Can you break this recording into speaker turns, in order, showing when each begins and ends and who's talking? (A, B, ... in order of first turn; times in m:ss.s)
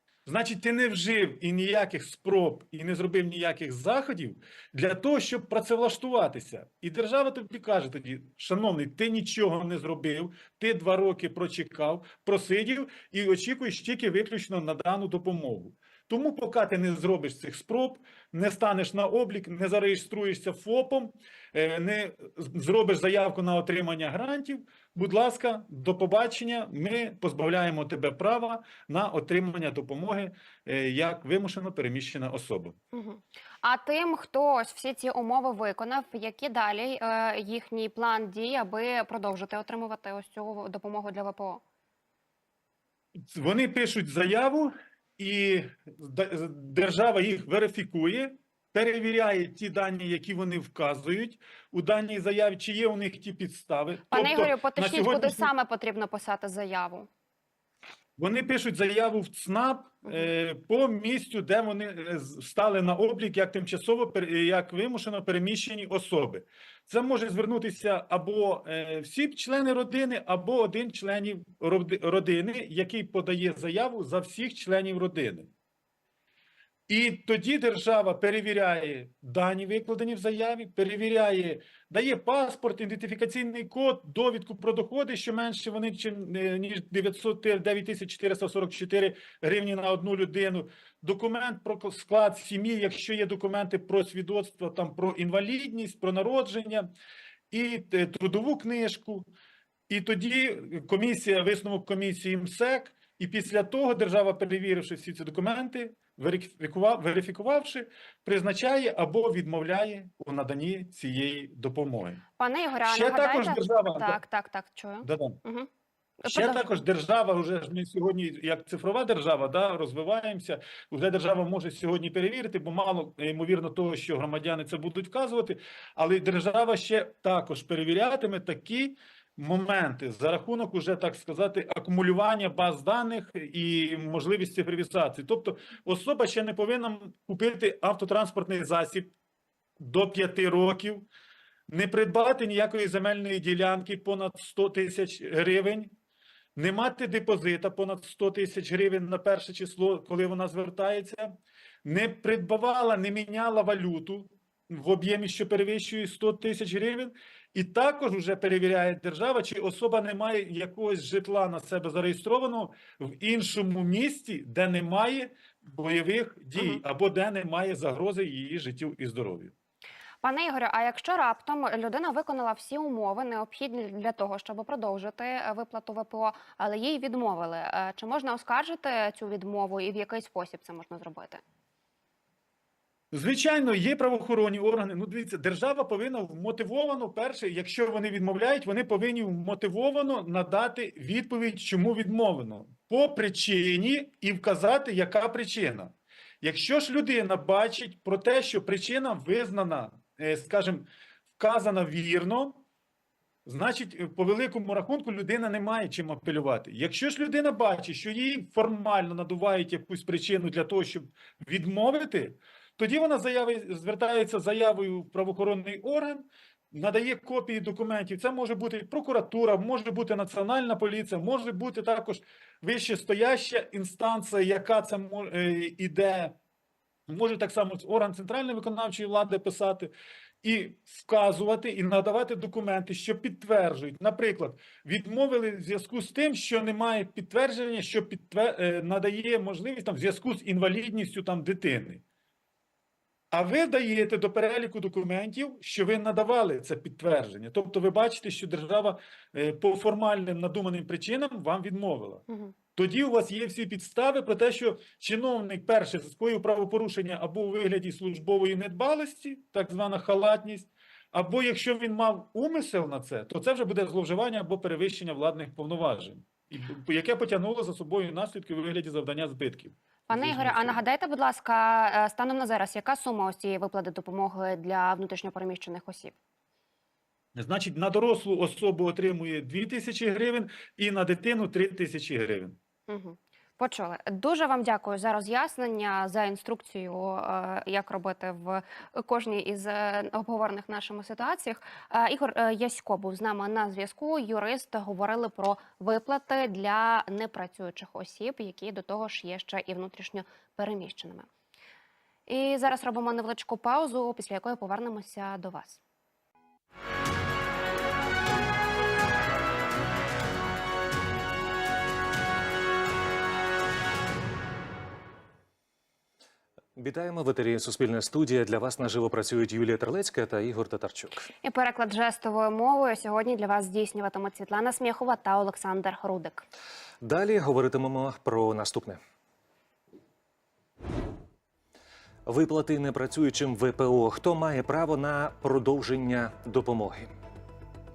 0:00.2-0:32.8 A
0:32.9-0:41.6 B
0:43.3-0:55.5 A
0:54.1-0:57.1 B
0:58.2-1:15.5 A
1:16.9-1:36.9 A
1:37.5-1:39.3 A
1:39.9-1:52.2 A
1:52.4-1:55.7 B
1:52.8-1:54.2 A
1:55.0-1:55.4 A
1:56.2-1:56.8 B
1:56.3-2:19.1 A
2:19.8-2:21.1 A
2:21.7-2:25.9 A
2:26.6-2:49.5 A
2:50.2-3:01.4 B
3:03.1-3:22.6 A
3:23.4-3:46.4 A
3:47.1-4:02.0 A
4:03.3-4:12.2 A
4:12.3-4:12.5 B
4:12.8-4:30.8 A
4:30.1-4:36.1 B
4:37.4-4:42.6 A
4:42.9-5:01.3 B
5:02.3-5:05.8 B
5:16.8-5:21.3 C
5:21.4-5:26.4 B
5:27.0-5:29.0 C
5:32.3-5:37.1 C